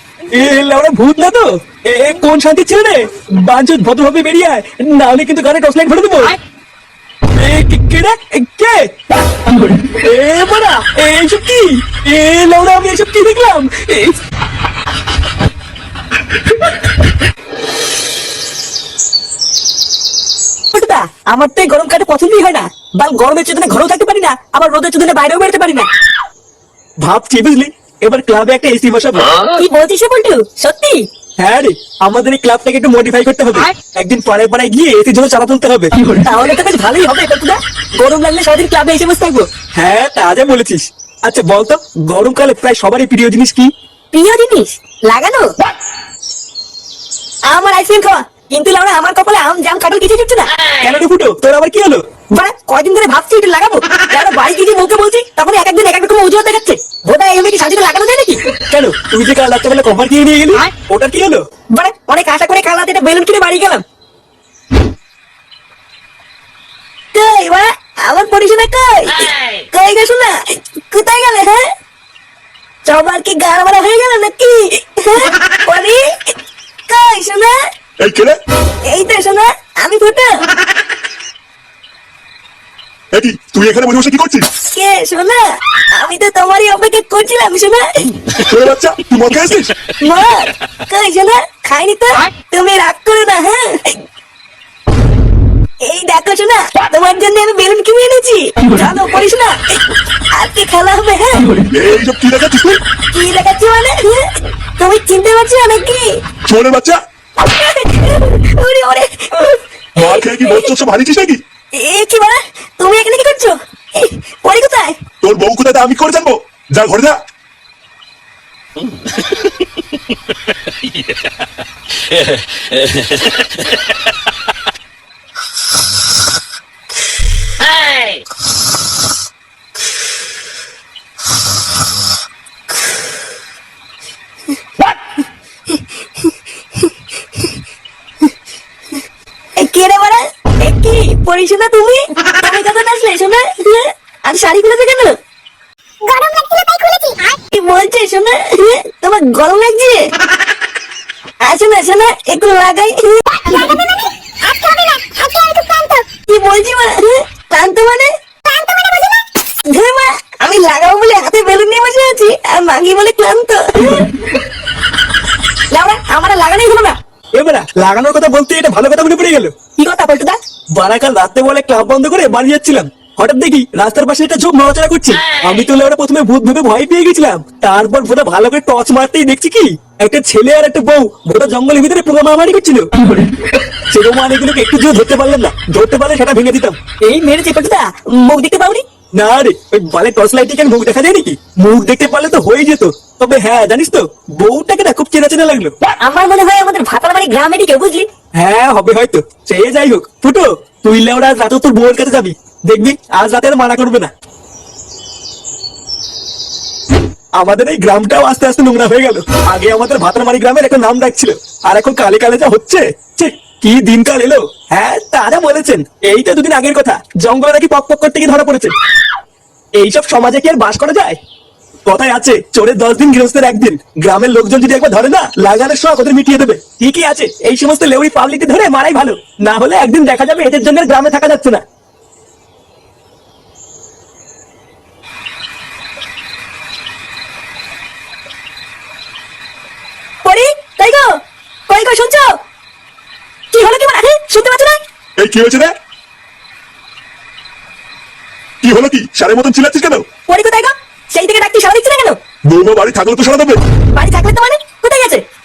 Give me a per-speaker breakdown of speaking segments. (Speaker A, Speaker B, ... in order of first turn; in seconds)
Speaker A: 0.3-6.3, 7.3-8.9, 9.8-14.1, 27.0-29.3, 31.4-36.0, 39.8-43.7, 50.8-52.0, 58.7-61.4, 167.3-169.6, 170.8-182.9, 183.9-186.8, 189.2-195.7, 198.3-204.1, 207.3-218.7, 219.8-221.2, 221.8-231.6
Speaker B: 20.7-25.9, 29.5-31.0, 36.2-39.5, 44.1-45.5, 47.5-50.5, 52.3-58.4, 61.7-63.8, 67.1-71.7, 72.8-76.3, 76.9-77.6, 78.8-80.5, 84.7-88.1, 90.0-94.0, 95.8-99.8, 100.3-101.5, 103.1-106.2, 107.4-110.7, 111.7-115.0, 139.6-145.2, 147.5-150.1, 151.4-153.7, 156.2-158.1, 159.6-164.1, 165.7-167.0, 169.8-170.4, 187.0-188.8, 196.0-198.1, 240.2-242.4, 243.5-244.8, 250.3-252.2, 253.9-255.2
Speaker C: 78.0-78.4, 83.1-84.5, 88.4-89.7, 101.7-102.8, 106.5-107.0, 110.0-111.4, 115.2-117.2, 245.2-245.7, 248.6-250.0, 252.5-253.6
Speaker D: 146.0-147.4, 153.3-156.1, 158.4-159.2